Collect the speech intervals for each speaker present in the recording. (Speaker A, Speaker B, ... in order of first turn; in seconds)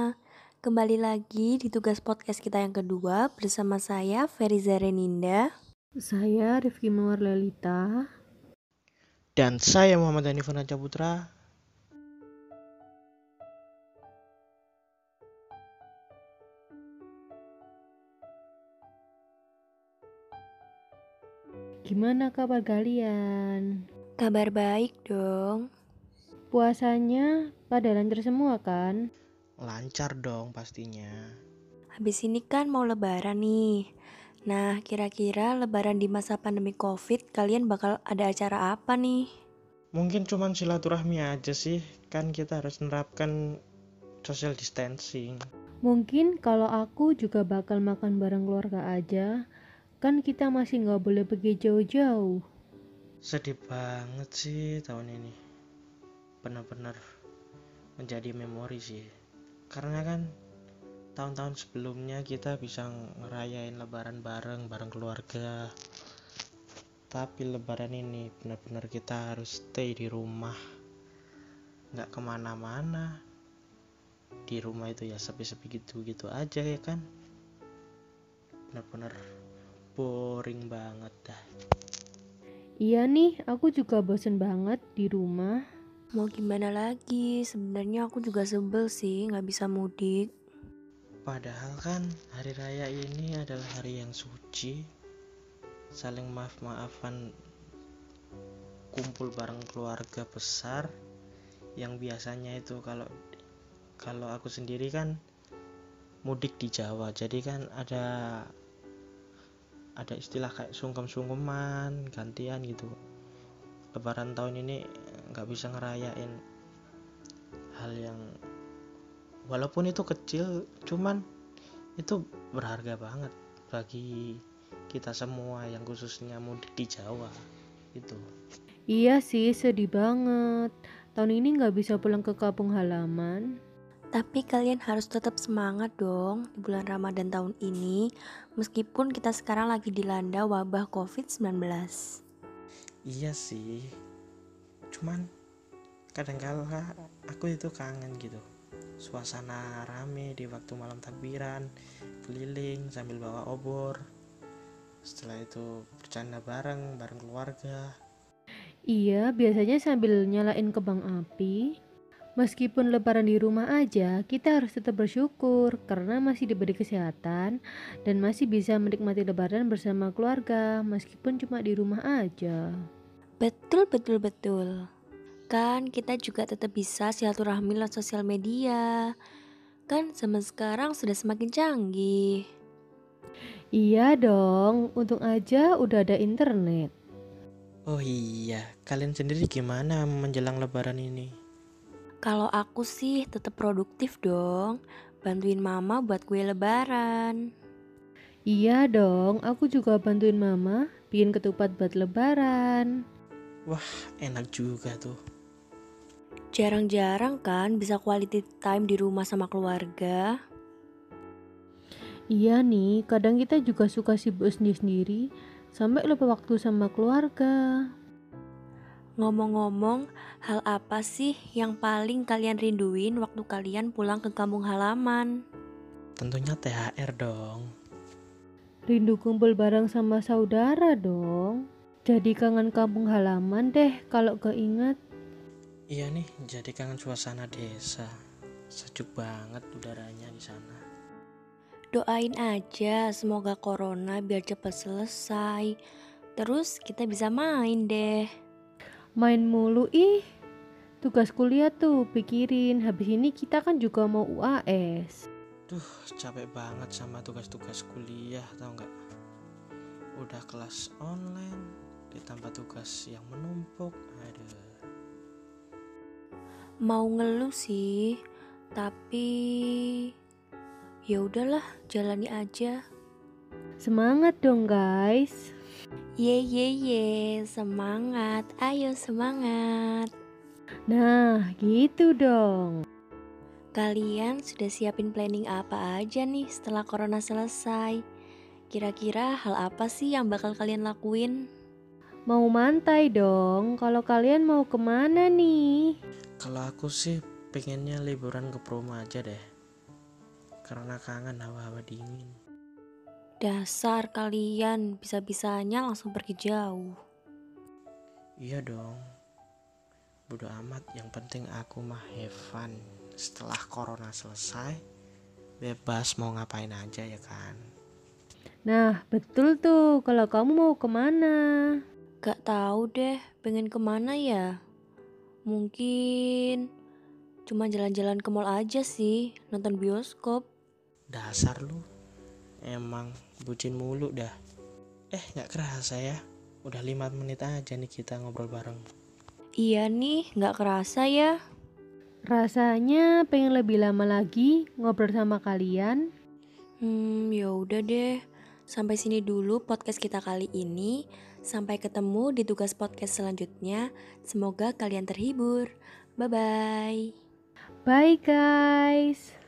Speaker A: 0.6-5.4, 24.2-25.6, 32.0-33.6, 34.5-39.2, 86.2-90.3, 134.1-138.0, 138.6-142.0, 173.4-174.7, 175.5-178.8, 179.9-182.3, 192.2-197.4, 206.5-210.2, 219.2-225.3, 241.9-245.7, 246.4-248.2, 266.9-267.9, 268.8-269.8, 271.1-272.8, 276.2-280.1, 283.8-288.0, 288.7-291.3, 303.4-306.9, 322.2-324.4, 325.5-326.6, 327.5-330.4, 339.6-341.3, 346.8-348.1, 348.7-351.0, 351.5-355.7, 356.2-357.0
Speaker B: 6.0-8.0, 21.9-23.6, 26.5-29.0, 45.9-49.3, 50.0-52.3, 82.8-85.5, 128.9-133.4, 158.9-161.6, 162.4-167.5, 168.1-172.6, 183.8-186.9, 198.5-202.8, 212.3-215.2, 215.8-217.5, 228.9-234.9, 249.2-250.2, 251.0-255.2, 273.8-275.4, 280.9-282.8, 292.3-295.7, 318.7-321.4, 342.3-346.0, 357.9-359.3
Speaker C: 9.4-11.2, 29.6-31.1, 40.0-43.3, 44.2-45.4, 53.3-55.4, 56.4-57.0, 58.0-59.1, 59.7-60.3, 61.1-65.5, 67.1-70.6, 71.9-73.1, 74.5-77.0, 78.7-79.1, 80.0-81.4, 91.2-94.8, 96.0-97.2, 98.9-100.9, 101.8-103.1, 104.0-105.1, 106.3-108.5, 110.0-112.9, 113.9-114.8, 115.3-116.3, 117.8-118.2, 119.5-121.2, 122.0-124.1, 124.9-127.3, 127.9-128.2, 143.1-143.8, 144.9-145.2, 146.1-148.4, 149.0-151.7, 152.2-154.0, 155.1-157.9, 187.9-191.3, 203.7-205.2, 226.2-227.7, 235.9-238.1, 238.7-240.8, 255.7-258.9, 260.2-264.6, 296.4-299.4, 300.7-302.3, 308.4-309.0, 310.3-314.8, 315.6-317.6, 331.1-331.8, 332.6-334.3, 335.1-338.8